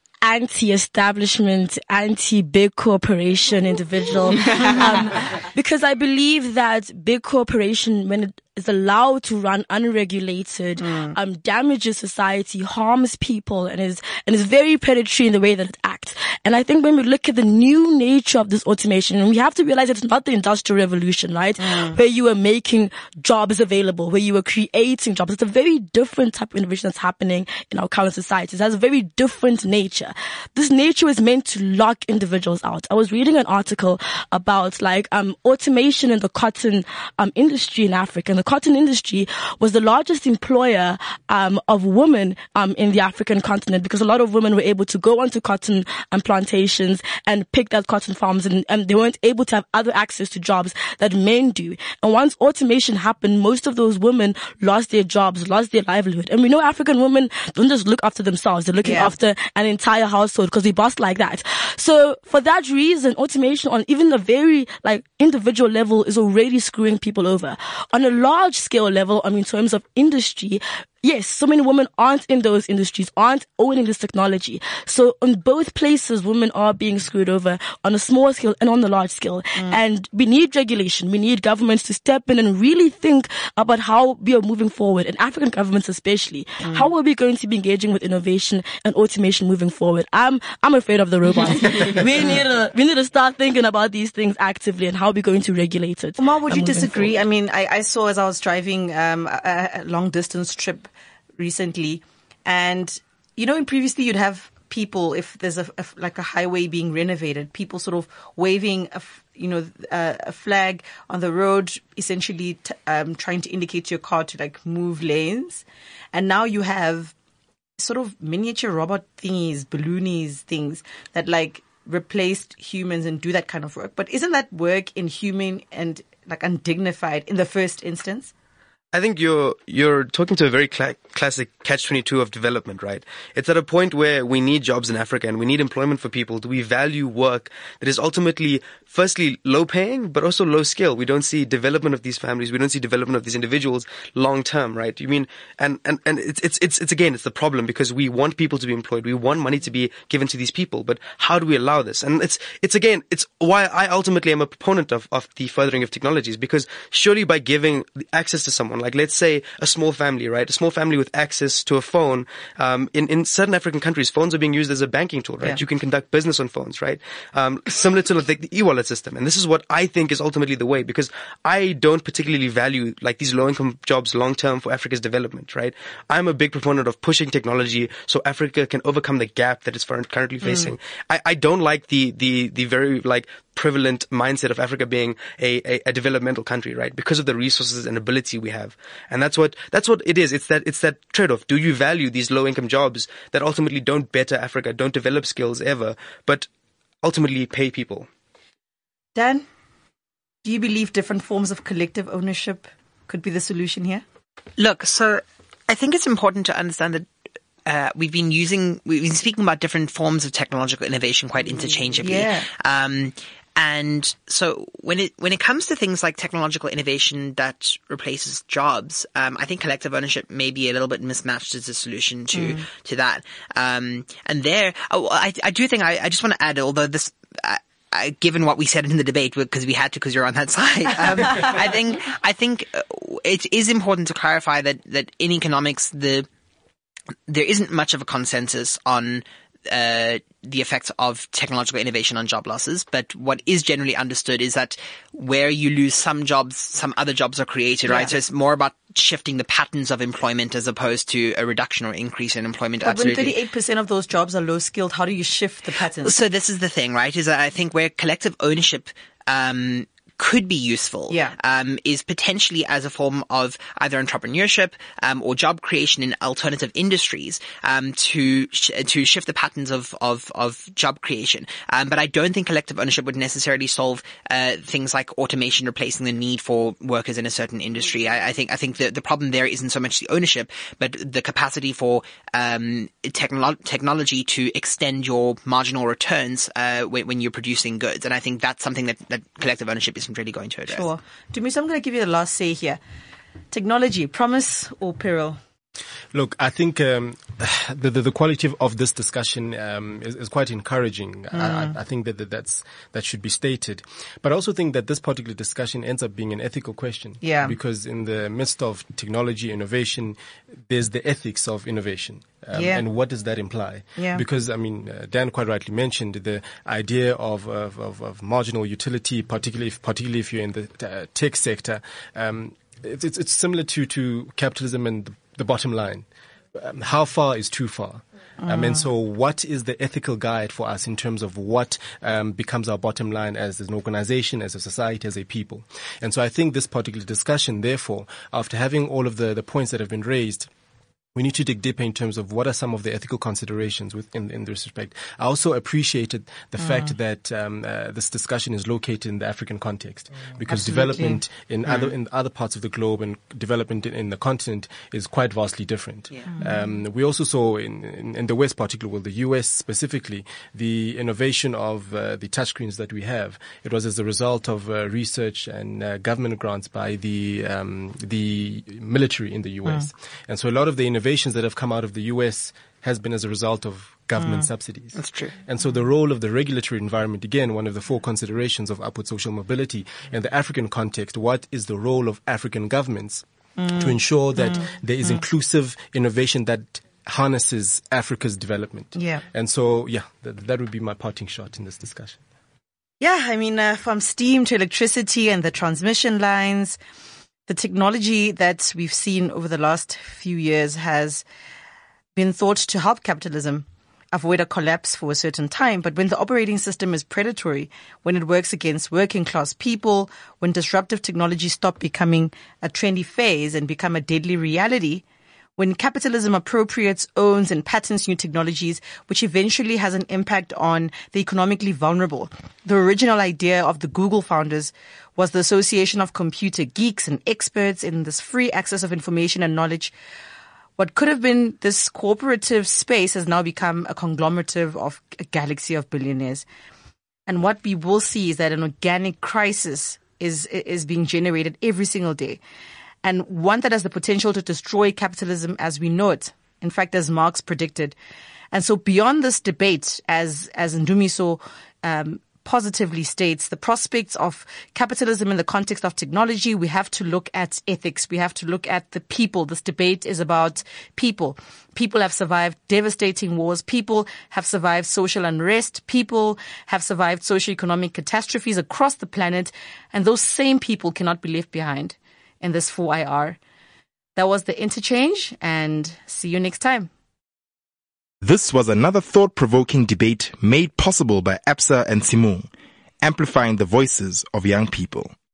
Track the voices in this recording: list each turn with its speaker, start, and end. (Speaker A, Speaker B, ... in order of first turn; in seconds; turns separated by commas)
Speaker A: 0.2-97.2, Speaker B: 10.8-11.2, Speaker B: 21.6-22.0, Speaker B: 58.8-59.1, Speaker B: 96.2-117.1, Speaker B: 117.8-128.3, Speaker C: 128.9-196.5, Speaker B: 180.4-180.7, Speaker C: 197.0-198.1, Speaker B: 199.2-199.4, Speaker B: 200.4-204.0, Speaker D: 204.6-207.1, Speaker D: 207.7-236.3, Speaker B: 212.0-212.5, Speaker B: 222.3-222.6, Speaker D: 237.3-253.4, Speaker B: 247.9-248.1, Speaker B: 252.8-256.2, Speaker D: 256.0-290.9, Speaker B: 261.1-261.4, Speaker B: 290.7-292.8, Speaker B: 293.5-295.4, Speaker E: 296.1-310.2, Speaker B: 301.3-301.8, Speaker B: 307.2-307.6, Speaker E: 310.7-340.5, Speaker B: 312.5-312.8, Speaker B: 314.0-314.2, Speaker B: 328.4-328.9, Speaker E: 341.1-383.2, Speaker B: 350.5-351.2, Speaker B: 383.6-385.1, Speaker E: 383.8-392.2, Speaker B: 388.9-389.2, Speaker B: 393.0-396.8, Speaker B: 397.5-401.2, Speaker B: 402.1-415.0, Speaker B: 415.6-429.9, Speaker B: 430.8-436.4, Speaker B: 437.3-442.4, Speaker B: 443.0-447.9, Speaker B: 448.5-473.4, Speaker B: 474.2-476.9, Speaker F: 478.2-482.5, Speaker F: 483.0-485.1